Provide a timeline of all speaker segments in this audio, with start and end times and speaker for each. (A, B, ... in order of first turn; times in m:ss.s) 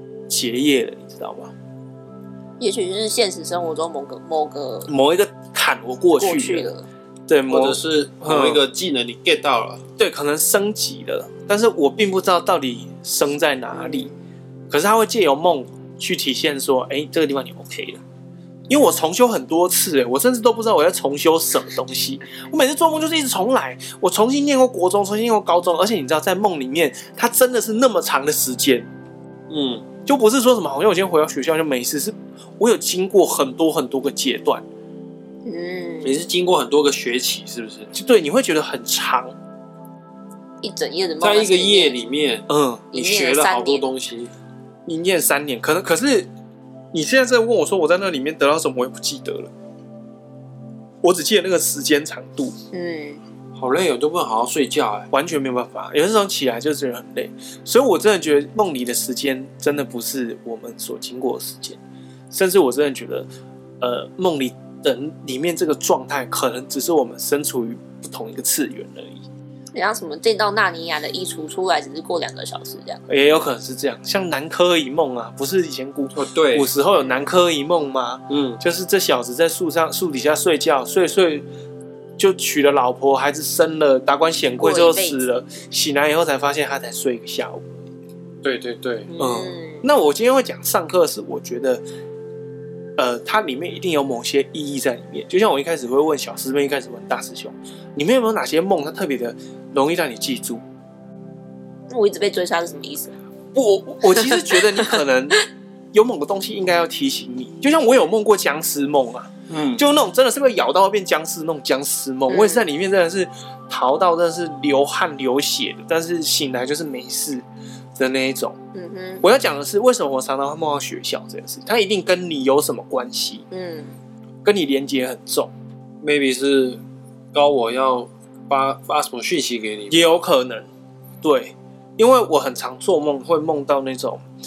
0:00.3-0:01.5 A
0:02.6-0:04.9 B
0:04.9-0:06.7 A
0:06.2-0:06.9 B
0:07.3-0:08.6 A
0:07.5-0:09.8 C
0:10.0-0:14.1 A
0:13.7-0:14.2 B
0:14.7-0:18.0 A
0:18.7-0:28.9 A
0:29.5-0:29.9 C
0:30.0-0:34.6 A
0:35.4-0:36.2 B
0:36.0-0:37.9 C
0:37.9-0:39.4 A
0:40.6-0:42.0 B
0:41.2-0:44.3 C
0:42.5-0:42.9 A
0:42.9-0:43.8 B
0:44.9-0:46.3 A
0:46.9-0:49.5 A
0:51.0-0:52.6 A
0:52.7-0:53.2 B
0:53.6-0:55.1 C
0:55.1-1:01.8 A
1:02.3-1:03.3 A
1:03.8-1:09.2 A
1:09.7-1:13.0 B
1:13.1-1:21.5 A
1:16.1-1:16.7 C
1:18.3-1:18.6 C
1:22.2-1:27.8 A
1:24.6-1:25.2 B
1:28.4-1:29.1 C
1:29.1-1:29.8 B
1:29.2-1:31.8 A
1:33.0-1:40.6 A
1:41.9-1:43.2 B
1:43.5-1:45.4 A
1:44.1-1:45.0 B
1:45.9-1:57.4 A
1:49.5-1:49.8 C
1:52.3-1:52.6 B
1:58.0-1:58.6 A
1:58.7-1:59.3 B
1:59.2-2:03.5 A
2:03.5-2:04.0 B
2:04.4-2:05.5 A
2:06.0-2:06.8 C
2:07.3-2:10.1 C
2:09.9-2:10.7 A
2:11.2-2:14.2 A